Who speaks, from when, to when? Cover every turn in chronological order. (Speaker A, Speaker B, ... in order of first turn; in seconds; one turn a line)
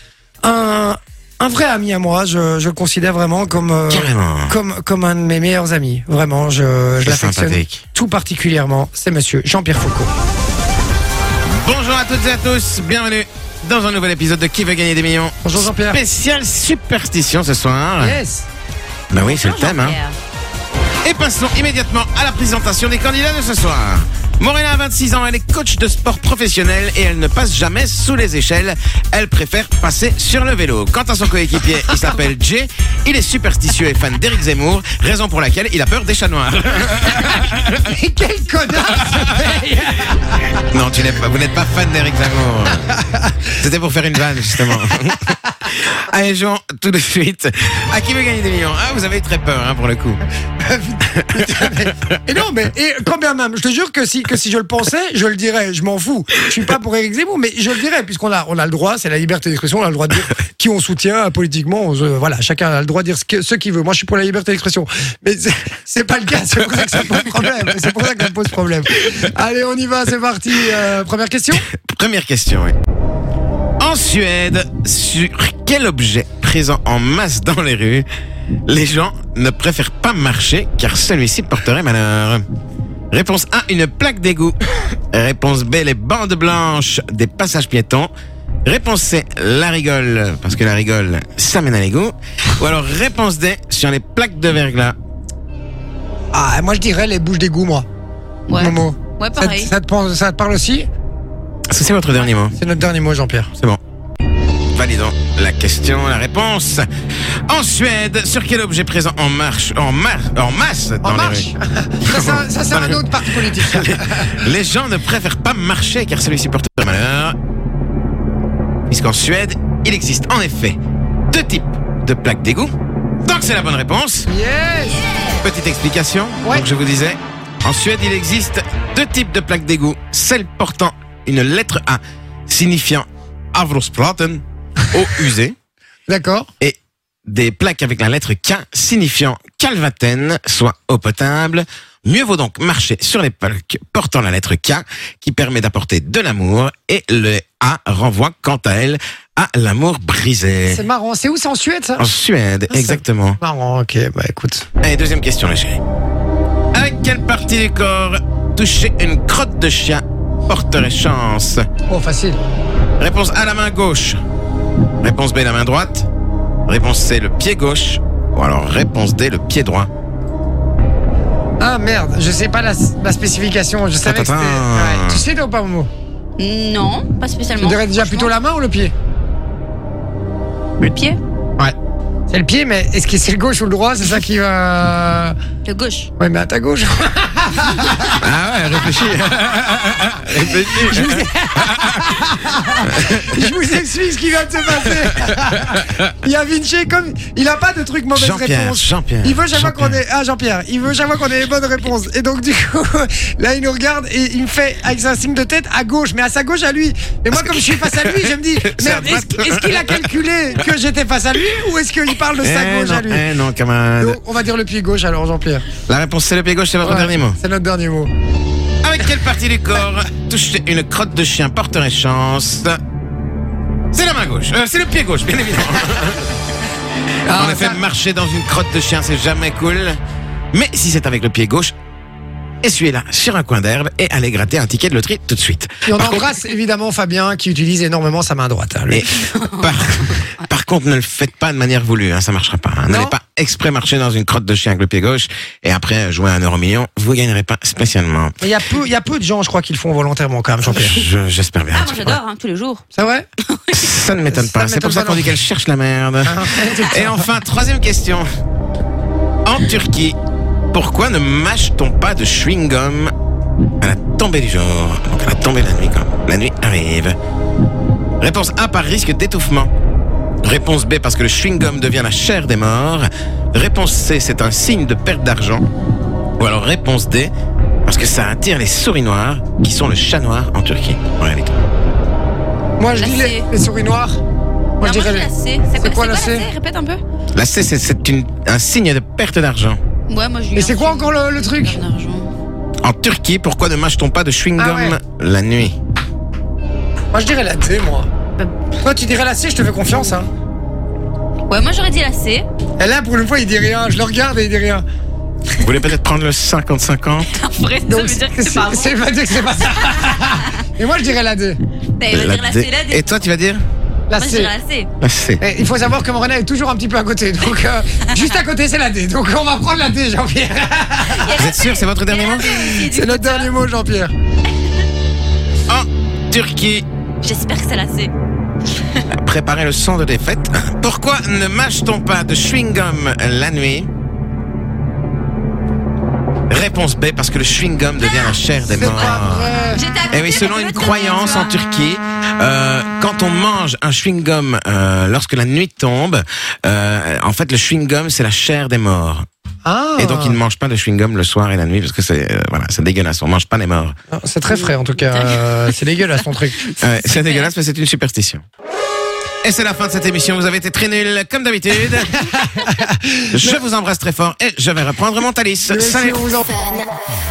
Speaker A: 0.4-10.1
Speaker B: 3.9-4.6
Speaker B: 7.0-7.8
Speaker B: 11.6-18.2
Speaker A: 15.4-16.0
Speaker A: 18.0-18.4
Speaker B: 19.1-20.0
Speaker C: 19.1-20.2
Speaker B: 21.0-37.8
Speaker A: 37.7-40.6
Speaker B: 38.9-39.3
Speaker B: 40.7-43.0
Speaker A: 43.1-43.4
Speaker B: 43.5-50.2
Speaker A: 44.6-45.0
Speaker A: 50.6-71.6
Speaker B: 51.2-52.2
Speaker B: 71.7-72.8
Speaker B: 73.8-78.1
Speaker B: 78.7-82.4
Speaker B: 83.1-84.6
Speaker B: 85.1-88.1
Speaker B: 88.6-95.0
Speaker A: 96.3-97.8
Speaker C: 98.5-99.7
Speaker A: 98.5-100.9
Speaker B: 101.7-102.5
Speaker A: 102.5-103.5
Speaker B: 104.7-106.9
Speaker B: 107.5-111.5
Speaker A: 111.0-114.4
Speaker B: 112.0-117.3
Speaker B: 118.9-120.8
Speaker B: 121.3-122.7
Speaker B: 123.2-124.3
Speaker A: 124.3-125.0
Speaker B: 125.2-135.5
Speaker A: 136.1-136.5
Speaker B: 136.6-150.8
Speaker A: 150.7-152.1
Speaker B: 152.0-153.4
Speaker A: 152.7-154.7
Speaker B: 154.8-155.8
Speaker B: 156.7-161.6
Speaker A: 161.9-162.4
Speaker B: 163.0-164.2
Speaker B: 165.0-166.1
Speaker B: 166.7-169.9
Speaker A: 171.6-175.9
Speaker B: 174.0-175.2
Speaker C: 176.4-178.3
Speaker A: 177.6-178.9
Speaker C: 180.8-181.2
Speaker A: 182.3-185.3
Speaker C: 185.7-186.1
Speaker A: 186.2-188.2
Speaker B: 188.2-193.5
Speaker A: 190.5-213.2
Speaker B: 194.7-196.1
Speaker B: 198.1-199.9
Speaker B: 207.3-210.6
Speaker B: 212.4-214.2
Speaker A: 214.0-215.7
Speaker B: 215.9-217.4
Speaker A: 216.8-218.1
Speaker B: 218.8-222.8
Speaker B: 223.9-226.3
Speaker A: 227.2-227.8
Speaker B: 227.2-230.0
Speaker B: 230.5-231.7
Speaker B: 232.6-236.3
Speaker A: 235.8-239.2
Speaker B: 238.9-248.4
Speaker A: 242.8-243.1
Speaker A: 248.4-251.0
Speaker B: 250.7-252.2
Speaker C: 251.7-252.8
Speaker A: 252.9-253.2
Speaker C: 253.5-253.8
Speaker B: 253.7-258.2
Speaker A: 254.3-255.4
Speaker A: 256.2-257.3
Speaker B: 259.4-260.2
Speaker B: 260.7-263.1
Speaker B: 263.8-267.2
Speaker B: 268.2-269.7
Speaker B: 270.4-275.6
Speaker B: 276.4-277.3
Speaker B: 277.9-281.5
Speaker A: 282.8-284.2
Speaker C: 282.9-283.5
Speaker A: 284.8-286.5
Speaker C: 284.8-287.0
Speaker B: 287.3-289.8
Speaker C: 290.1-292.3
Speaker A: 290.5-291.8
Speaker B: 292.8-295.8
Speaker A: 294.6-295.0
Speaker A: 297.1-298.1
Speaker A: 298.7-300.3
Speaker C: 301.5-302.5
Speaker A: 302.8-304.8
Speaker B: 305.6-307.3
Speaker C: 307.3-310.6
Speaker A: 307.9-311.6
Speaker C: 312.0-313.3
Speaker B: 312.1-313.6
Speaker A: 314.1-314.5
Speaker C: 314.2-314.9
Speaker B: 315.0-315.4
Speaker A: 315.4-321.4
Speaker C: 321.1-323.5
Speaker B: 321.3-322.5
Speaker A: 322.4-324.1
Speaker B: 325.7-326.8
Speaker C: 327.2-328.1
Speaker B: 329.1-333.9
Speaker B: 336.5-339.5
Speaker C: 338.1-341.5
Speaker A: 338.7-339.8
Speaker B: 340.1-349.2
Speaker A: 349.6-350.4
Speaker B: 350.0-353.9
Speaker A: 354.1-356.6
Speaker C: 354.5-355.7
Speaker C: 356.6-357.5
Speaker B: 356.8-358.4
Speaker B: 359.4-362.3
Speaker A: 362.3-363.6
Speaker B: 363.3-366.2
Speaker A: 365.7-366.5